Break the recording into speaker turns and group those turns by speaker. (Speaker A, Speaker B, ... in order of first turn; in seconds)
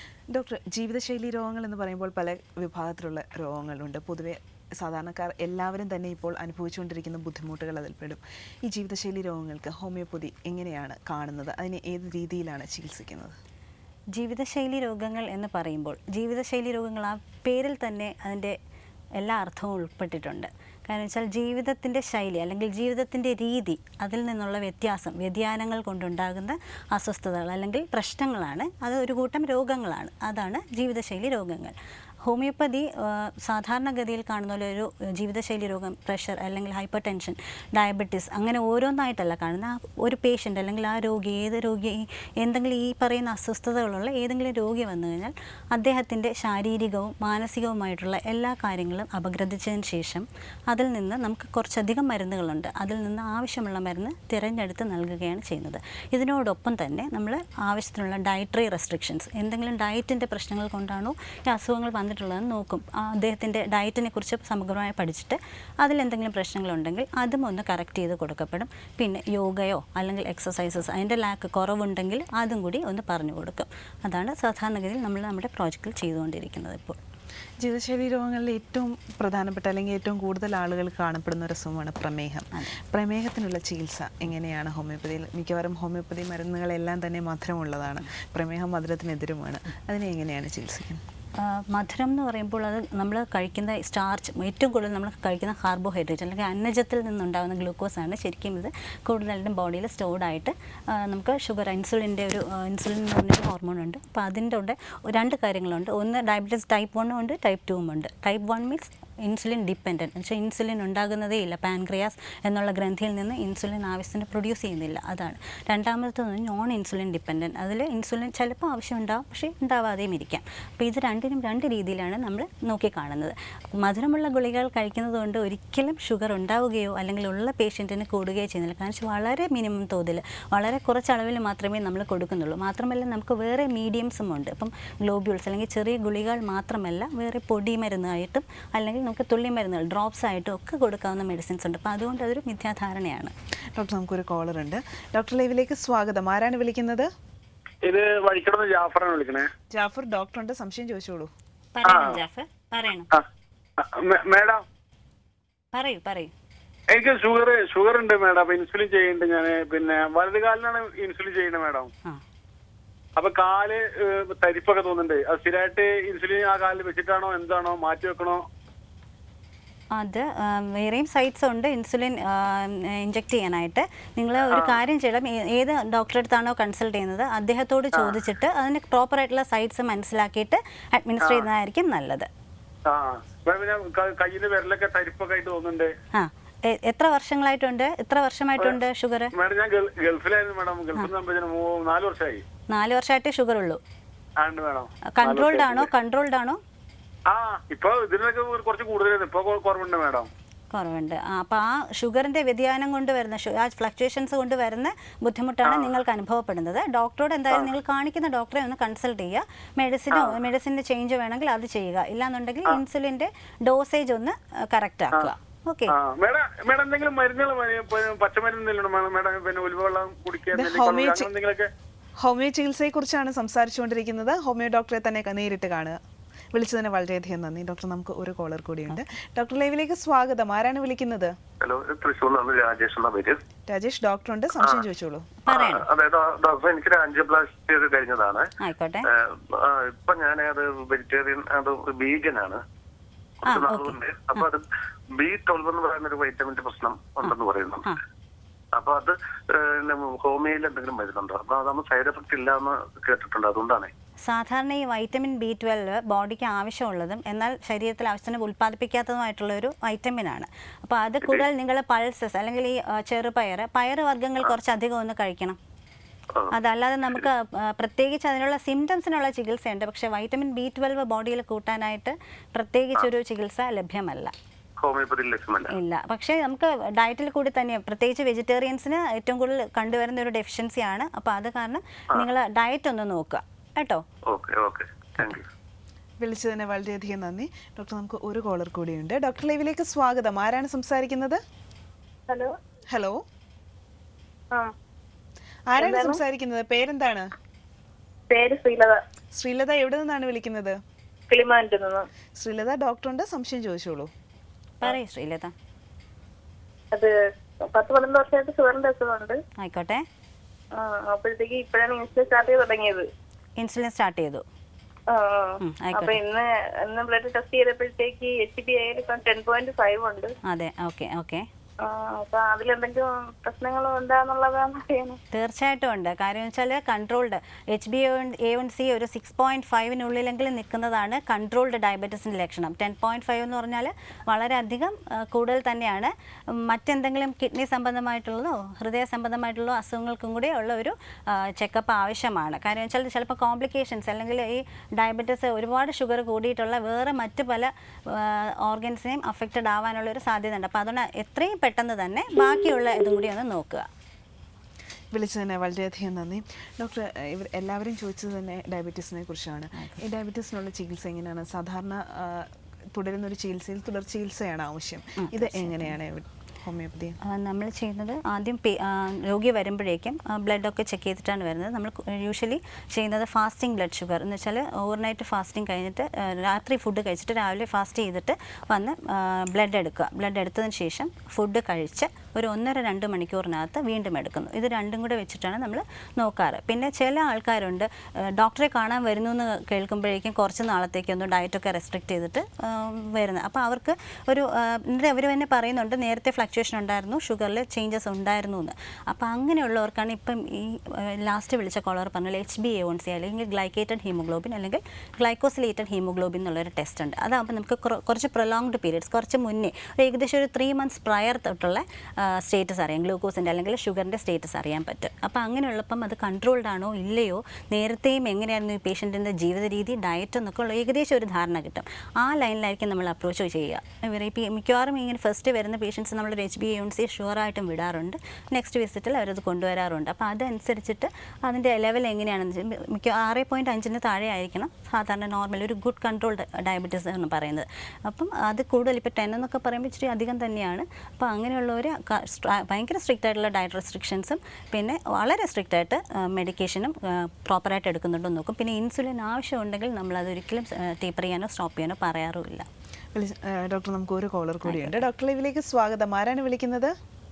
Speaker A: 0.3-13.3, 77.6-91.0, 143.7-147.1, 149.7-151.3, 220.5-221.3, 222.2-226.0, 226.5-231.3, 233.7-235.3, 286.2-291.4, 292.9-293.2, 295.7-297.3, 299.3-300.8, 302.4-304.1, 355.1-367.2, 453.1-456.9
Speaker B: 14.1-18.6, 19.2-77.0, 91.4-143.3, 151.7-153.1, 155.7-156.3, 169.9-182.3, 186.1-189.3, 192.7-193.8, 195.1-196.6, 200.7-215.9, 235.5-235.8, 238.6-239.1, 243.4-244.4, 254.2-265.6, 266.5-274.3, 275.7-284.0, 304.8-305.5, 309.6-310.0, 313.6-314.4, 315.6-316.2, 320.5-321.4, 325.3-353.9, 365.2-365.9, 367.2-452.7, 454.6-455.0
Speaker C: 147.8-149.5, 151.8-152.2, 153.8-154.6, 156.9-161.9, 163.2-168.4, 174.4-174.8, 181.2-181.5, 182.9-185.9, 189.3-192.4, 194.4-195.9, 197.3-200.3, 205.6-205.9, 210.1-210.4, 215.9-221.7
Speaker D: 231.6-233.4, 235.5-238.5, 239.1-242.6, 243.4-244.6, 245.2-248.0, 248.8-253.9, 274.8-275.7, 284.3-285.4
Speaker E: 292.3-292.5, 295.8-296.2, 298.3-299.0, 301.3-302.1, 307.7-309.4, 310.7-313.0, 315.1-320.3, 321.8-325.2